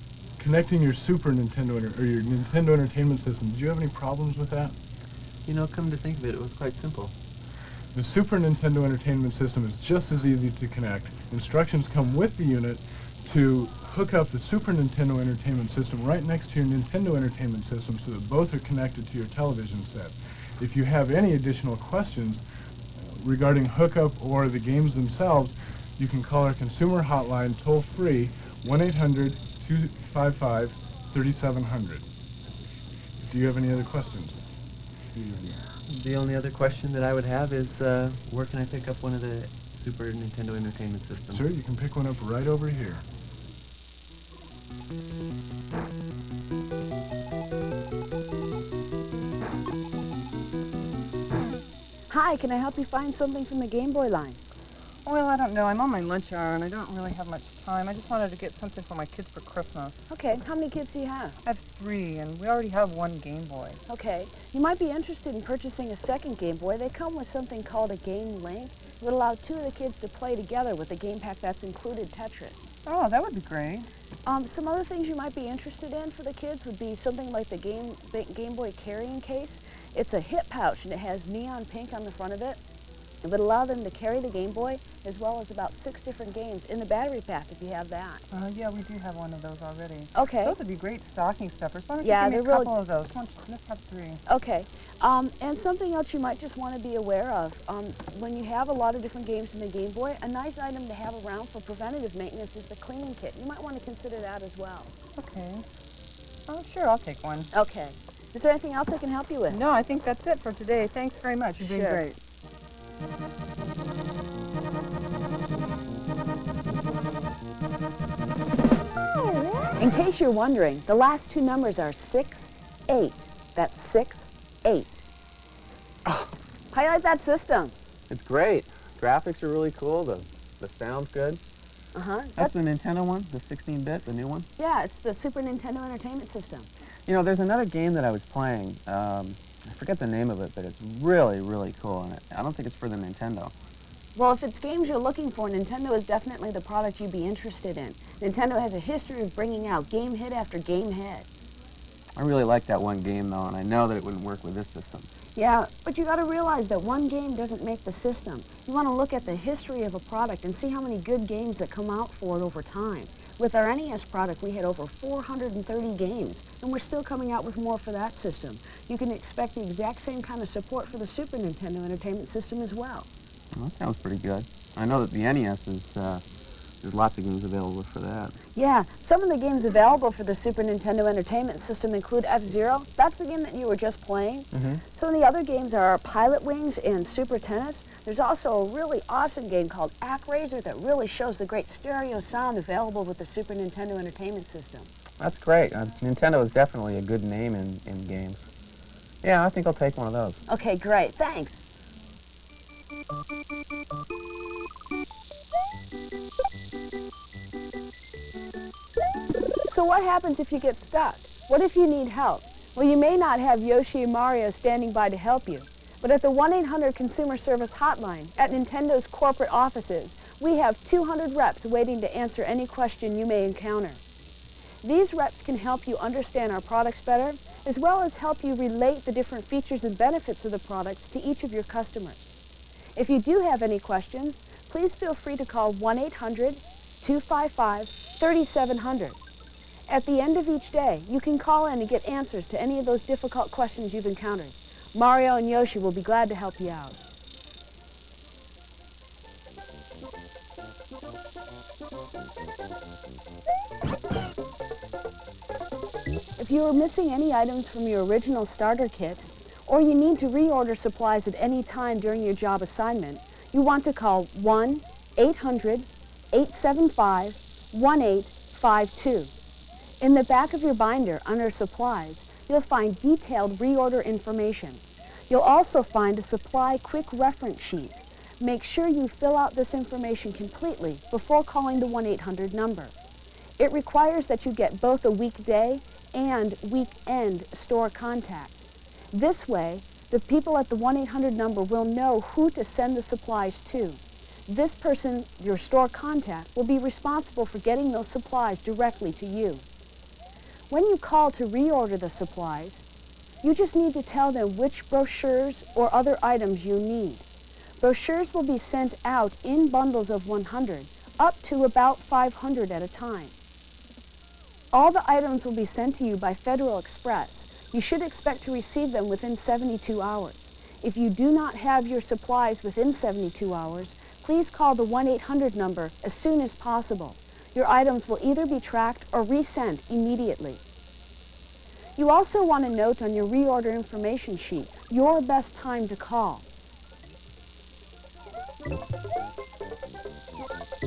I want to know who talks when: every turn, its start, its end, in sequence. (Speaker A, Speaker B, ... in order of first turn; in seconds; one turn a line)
Speaker A: 0.4-4.7
Speaker B: 5.5-7.1
Speaker A: 7.9-22.4
Speaker A: 23.0-32.0
Speaker A: 33.3-34.4
Speaker A: 35.1-35.6
Speaker B: 35.9-41.5
Speaker A: 41.3-43.0
Speaker C: 52.1-54.4
Speaker D: 55.0-60.1
Speaker C: 60.1-61.4
Speaker D: 61.4-63.8
Speaker C: 63.9-72.7
Speaker D: 72.8-73.9
Speaker C: 74.3-82.6
Speaker C: 83.2-88.3
Speaker D: 88.3-94.2
Speaker C: 90.1-90.6
Speaker C: 92.0-92.7
Speaker C: 94.3-104.9
Speaker D: 105.2-105.6
Speaker D: 106.5-107.5
Speaker C: 107.5-109.6
Speaker D: 109.5-112.2
Speaker C: 111.6-112.0
Speaker C: 119.8-125.0
Speaker C: 126.7-127.8
Speaker E: 128.1-131.4
Speaker C: 131.9-132.5
Speaker E: 132.4-134.5
Speaker C: 134.6-136.7
Speaker E: 137.1-143.5
Speaker C: 144.2-151.3
Speaker E: 152.2-155.1
Speaker C: 155.4-173.1
Speaker E: 173.6-176.2
Speaker E: 176.8-178.3
Speaker C: 178.6-194.9
Speaker E: 184.5-184.8
Speaker E: 195.2-198.5
Speaker E: 199.2-200.4
Speaker C: 200.5-201.6
Speaker C: 209.7-224.0
Speaker C: 224.8-232.4
Speaker C: 233.0-239.2
Speaker C: 239.9-247.0
Speaker C: 256.4-269.3
Speaker C: 270.0-282.9
Speaker C: 283.6-288.6
Speaker C: 289.1-299.6
Speaker C: 300.7-302.8
Speaker C: 303.4-307.2
Speaker C: 307.8-313.3
Speaker C: 314.7-330.6
Speaker C: 332.0-336.4